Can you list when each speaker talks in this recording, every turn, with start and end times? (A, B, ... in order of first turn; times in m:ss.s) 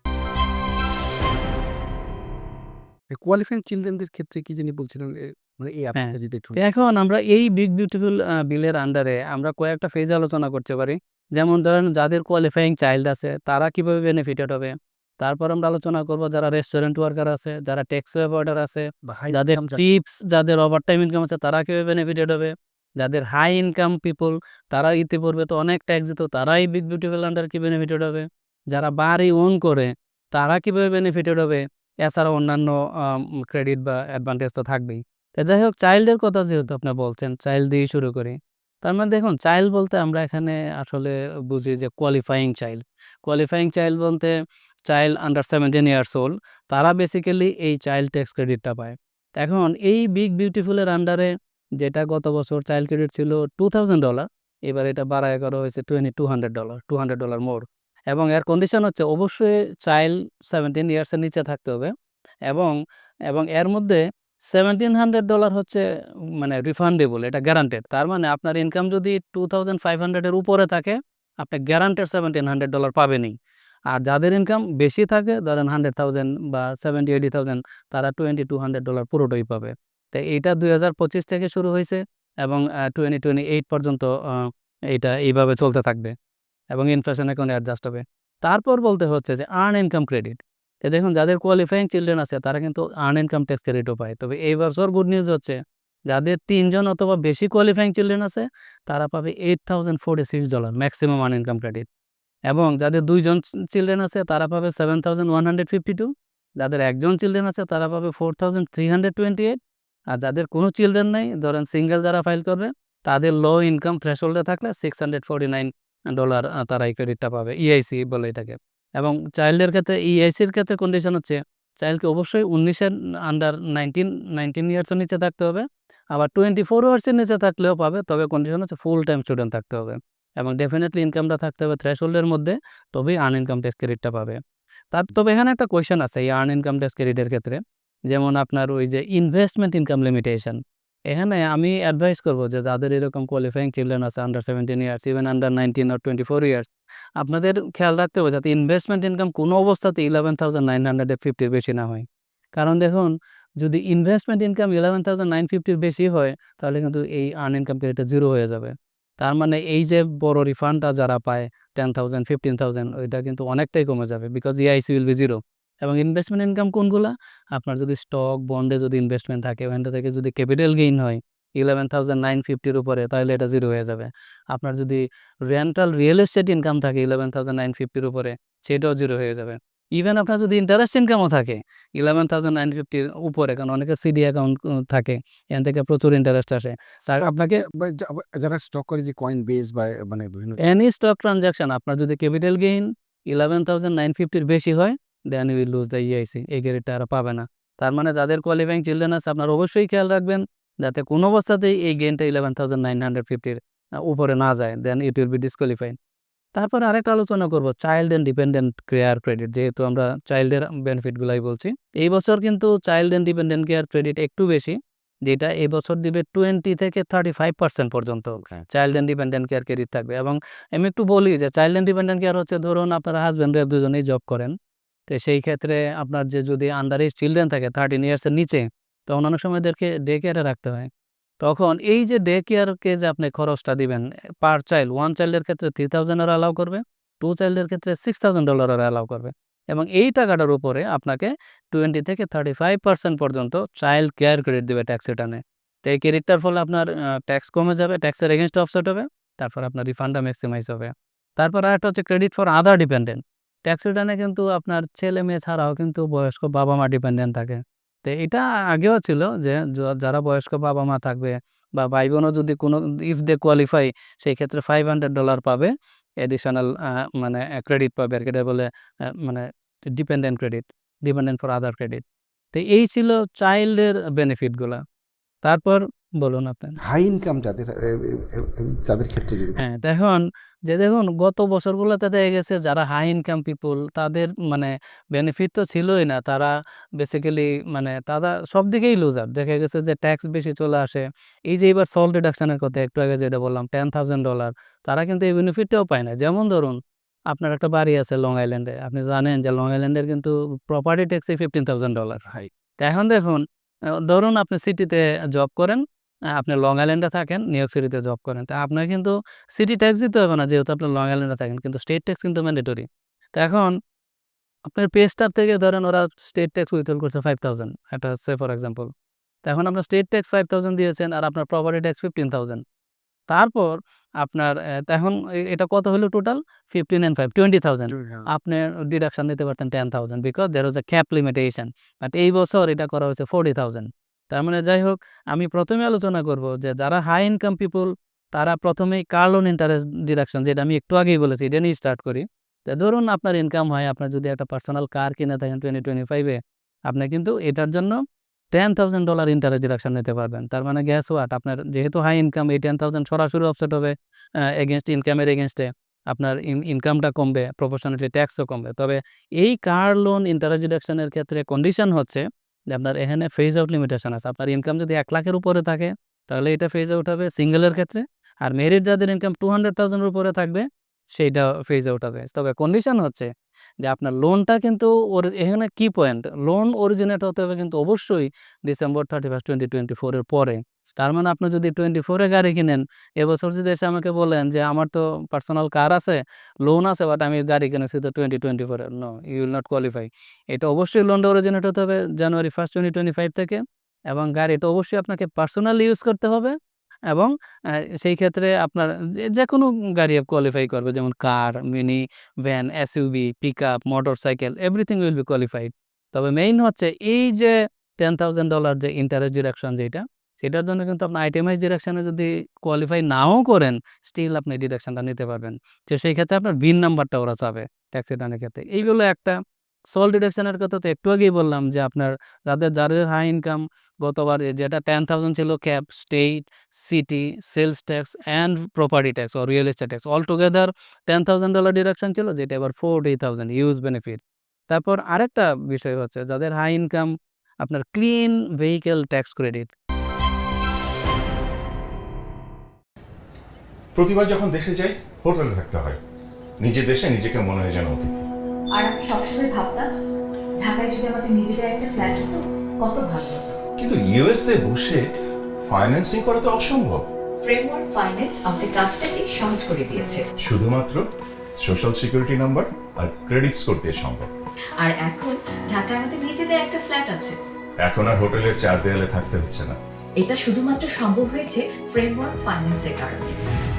0:03.1-0:06.6 A
0:06.0-0:44.3 B
0:19.0-0:19.8 A
0:44.9-1:01.9 B
1:02.5-1:02.8 B
1:03.3-1:05.8 B
1:06.4-1:13.3 B
1:13.9-1:26.1 B
1:26.7-1:41.8 B
1:42.5-1:49.6 B
1:50.1-2:14.4 B
2:14.9-2:26.6 B
2:27.2-2:32.0 B
2:32.6-3:07.6 B
3:07.2-3:10.6 A
3:10.6-3:26.0 B
3:26.6-3:44.5 B
3:38.4-3:38.6 A
3:45.1-3:50.9 B
3:51.4-4:25.7 B
4:26.2-4:34.8 B
4:35.4-4:36.8 B
4:36.8-4:39.6 A
4:39.6-4:56.8 B
4:57.3-5:02.3 B
5:02.8-5:03.4 B
5:04.0-5:05.8 B
5:06.3-5:13.8 B
5:14.6-5:18.9 B
5:19.4-5:22.6 B
5:23.3-5:48.0 B
5:27.9-5:28.3 A
5:48.5-6:13.3 B
6:13.8-6:36.6 B
6:37.1-6:59.4 B
6:59.9-7:17.1 B
7:17.6-7:19.7 B
7:23.9-7:26.0 C
7:26.6-7:28.2 C
7:28.7-7:29.9 D
7:30.6-7:33.6 D
7:33.8-7:35.0 C
7:35.6-7:37.0 C
7:37.4-7:40.2 D
7:40.4-7:41.0 C
7:41.6-7:44.3 C
7:44.8-7:47.4 D
7:47.8-7:49.8 C
7:50.2-7:53.4 D